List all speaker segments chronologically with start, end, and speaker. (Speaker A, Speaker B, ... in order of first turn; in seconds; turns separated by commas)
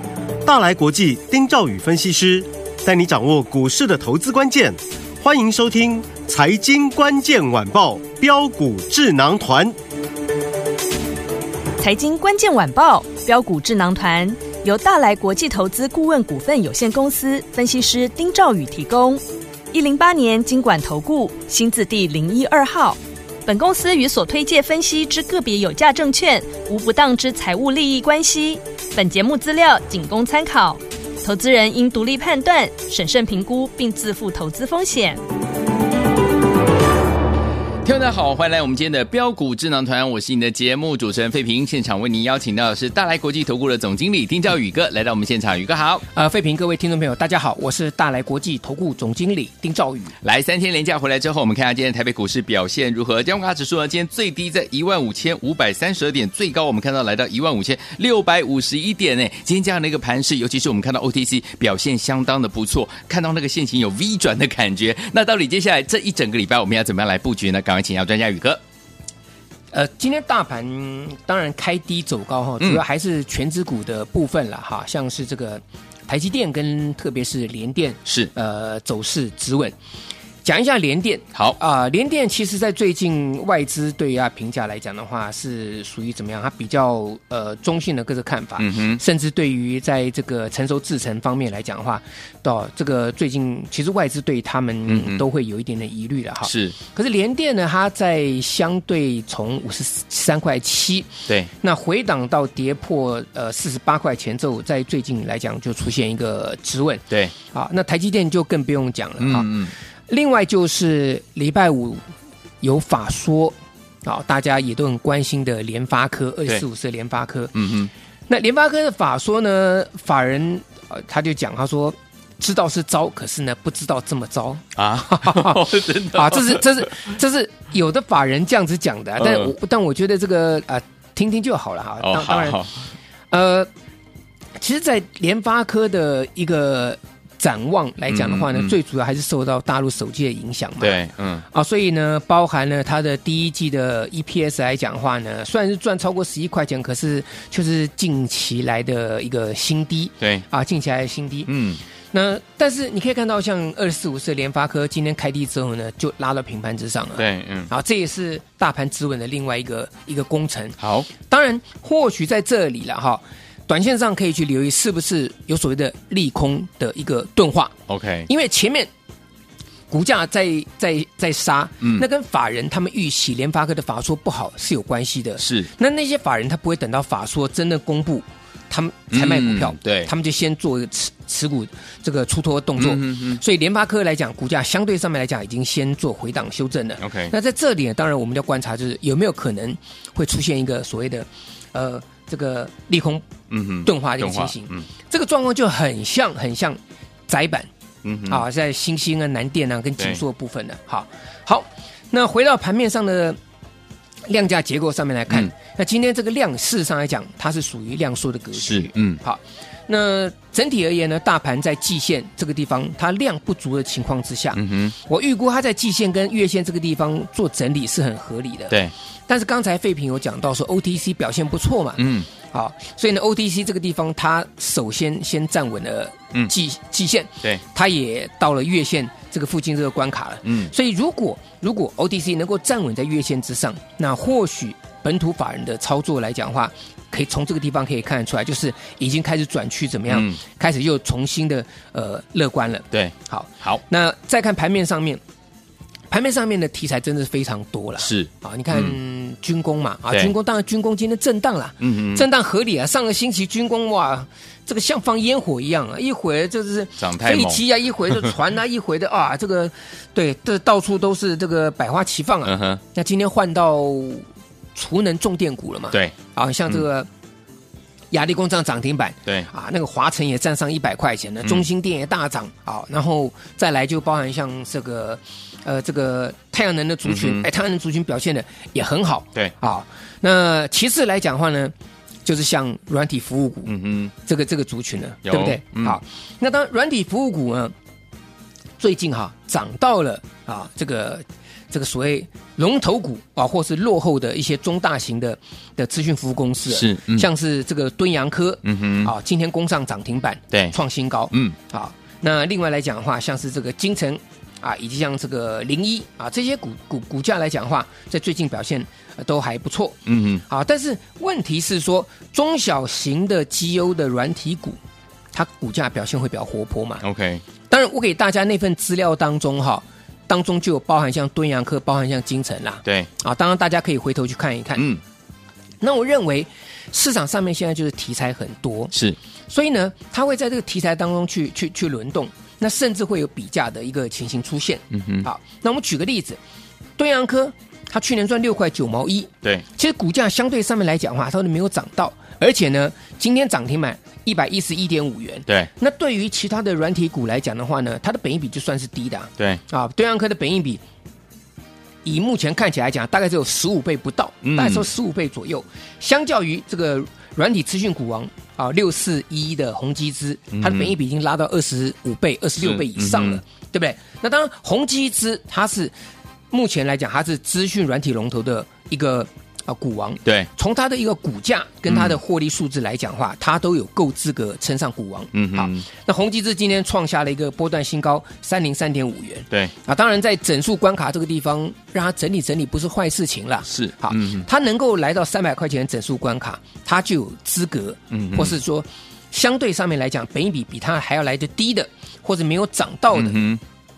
Speaker A: 0.4-9.8, Speaker B: 11.8-35.2, Speaker C: 37.8-46.0, Speaker D: 46.1-50.1, Speaker C: 50.2-68.6, Speaker D: 69.7-79.8, Speaker C: 78.1-78.3, Speaker D: 80.4-109.5, Speaker C: 88.6-89.0, Speaker C: 94.9-95.2, Speaker C: 96.4-96.8, Speaker C: 109.2-109.7, Speaker D: 110.1-112.0, Speaker D: 112.6-117.5, Speaker C: 117.5-117.9, Speaker D: 118.3-132.6, Speaker C: 124.8-126.9, Speaker C: 129.2-129.5, Speaker C: 132.0-132.8, Speaker D: 133.3-133.7, Speaker D: 134.6-151.5, Speaker C: 138.1-138.8, Speaker C: 140.8-141.4, Speaker C: 151.5-151.8, Speaker D: 152.1-167.8, Speaker C: 157.2-157.7, Speaker C: 160.8-161.1, Speaker C: 167.9-168.3, Speaker D: 168.3-168.9, Speaker D: 169.9-193.3, Speaker C: 175.4-175.7, Speaker C: 179.1-180.1, Speaker C: 182.8-183.4, Speaker C: 187.0-187.3, Speaker C: 193.5-194.9, Speaker D: 193.8-197.7, Speaker C: 198.0-198.4, Speaker D: 198.3-203.4, Speaker D: 204.3-218.8, Speaker C: 208.5-209.2, Speaker C: 214.6-214.9, Speaker D: 219.3-245.2, Speaker C: 222.0-222.3, Speaker C: 230.4-230.7, Speaker C: 240.1-240.4, Speaker C: 242.9-243.8, Speaker D: 246.1-267.1, Speaker C: 248.0-249.0, Speaker C: 251.8-252.3, Speaker C: 257.0-257.6, Speaker C: 262.4-262.8, Speaker D: 268.1-281.7, Speaker C: 277.1-277.5, Speaker D: 282.2-287.7, Speaker C: 283.7-284.1, Speaker C: 285.2-286.0, Speaker D: 288.8-314.8, Speaker C: 296.7-297.3, Speaker C: 298.6-299.1, Speaker C: 310.1-310.4, Speaker D: 315.3-317.0, Speaker C: 317.0-317.4, Speaker D: 317.7-324.9, Speaker D: 325.8-328.9, Speaker C: 328.9-329.2, Speaker D: 329.5-336.4, Speaker C: 334.9-335.3, Speaker D: 337.0-350.8, Speaker D: 352.0-365.9, Speaker C: 354.4-354.9, Speaker C: 360.5-360.9, Speaker C: 362.6-363.4, Speaker D: 366.5-393.4, Speaker C: 371.9-372.2, Speaker C: 375.3-375.9, Speaker C: 383.7-384.5, Speaker C: 388.1-388.6, Speaker C: 393.1-393.6